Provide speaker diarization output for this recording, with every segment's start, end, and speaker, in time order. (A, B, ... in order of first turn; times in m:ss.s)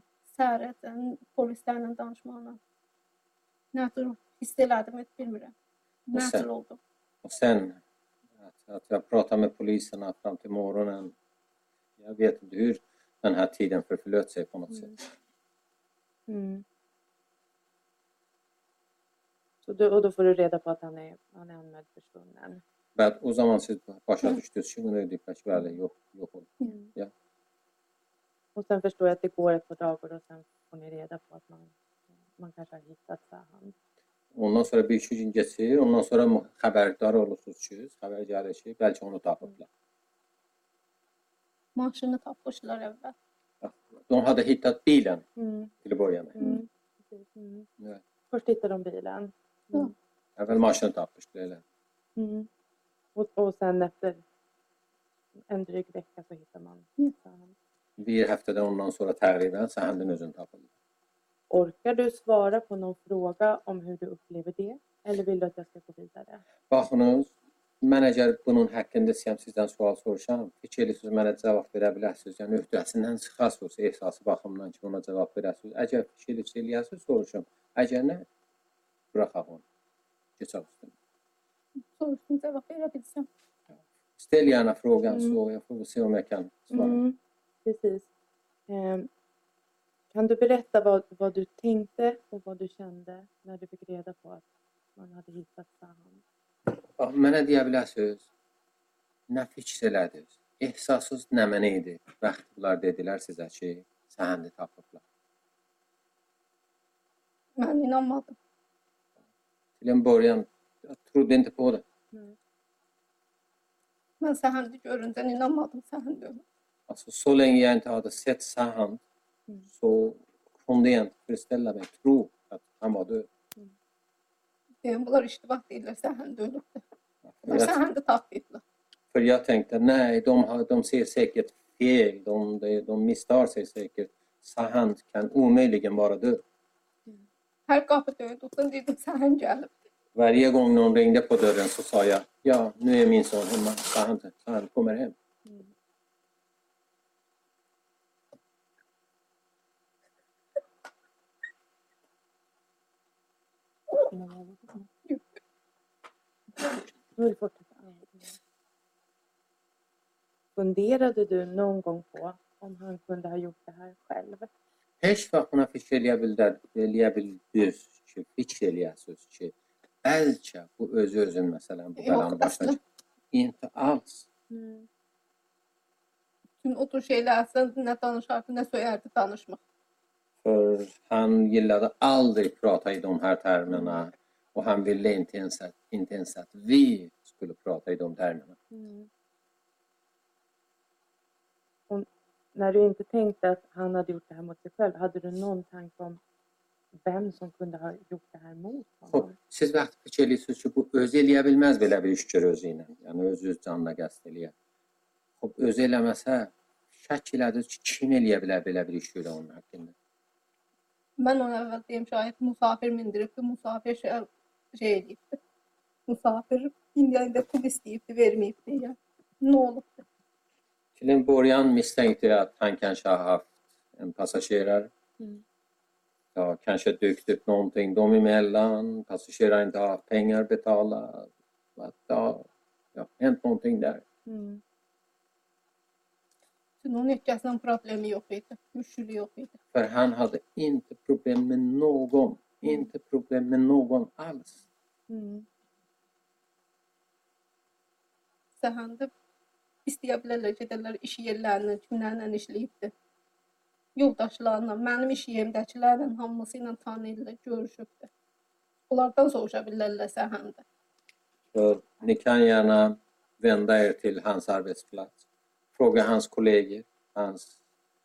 0:00.3-0:02.6 A
0:03.7-0:05.5 A
0:06.1-0:06.8 A
0:06.1-0:06.4 B
0:07.2-0:07.8 B
0:08.5-0:11.1 B
0:12.0-0:15.0 B
0:16.3-0:16.6 C
0:19.6-0:22.6 C
0:23.0-0:27.1 B
0:28.5-0:31.7 C
0:32.3-0:33.7 C
0:34.3-0:39.6 B
0:41.8-0:43.1 A
0:43.6-0:45.2 B
0:45.4-0:45.7 C
0:45.8-0:46.4 B
0:46.4-0:47.7 C
0:48.3-0:49.9 C
0:50.4-0:51.6 B
0:52.2-0:52.5 C
0:53.1-0:54.2 C
0:55.5-0:57.5 C
0:58.0-1:00.7 B
1:01.5-1:06.4 C
1:06.7-1:18.2 B
1:19.1-1:19.6 B
1:20.4-1:20.9 B
1:21.8-1:23.3 A
1:24.2-1:27.0 B
1:26.7-1:28.1 C
1:28.7-1:29.1 C
1:30.1-1:34.4 C
1:35.0-1:36.2 C
1:37.0-1:38.3 B
1:39.3-1:45.0 B
1:47.6-1:48.4 A
1:49.8-1:51.8 B
1:54.2-1:56.4 A
1:56.9-1:59.0 B
1:59.7-2:03.3 B
2:04.8-2:06.8 A
2:07.3-2:07.8 B
2:07.4-2:08.6 A
2:09.1-2:16.4 B
2:17.7-2:19.7 A
2:20.2-2:25.1 B
2:34.1-2:34.9 C
2:37.2-2:38.4 C
2:40.6-2:44.5 C
2:45.0-2:49.5 B
2:50.0-2:52.8 B
2:52.0-2:52.8 A
2:53.3-2:54.3 B
2:54.5-2:54.9 C
2:56.6-2:59.6 A
3:00.4-3:08.6 B
3:08.7-3:09.1 C
3:11.9-3:16.2 C
3:17.0-3:19.4 C
3:19.1-3:24.5 B
3:25.4-3:29.9 B
3:31.2-3:35.4 A
3:36.1-3:40.0 A
3:41.0-3:44.9 B
3:46.3-3:54.0 B
3:54.3-3:54.6 C
3:56.8-3:59.6 A
3:59.7-4:04.6 B
4:05.1-4:05.4 C
4:08.6-4:09.1 A
4:09.8-4:12.9 A
4:14.0-4:18.1 A
4:18.9-4:20.6 A
4:21.5-4:25.1 B
4:25.7-4:27.6 B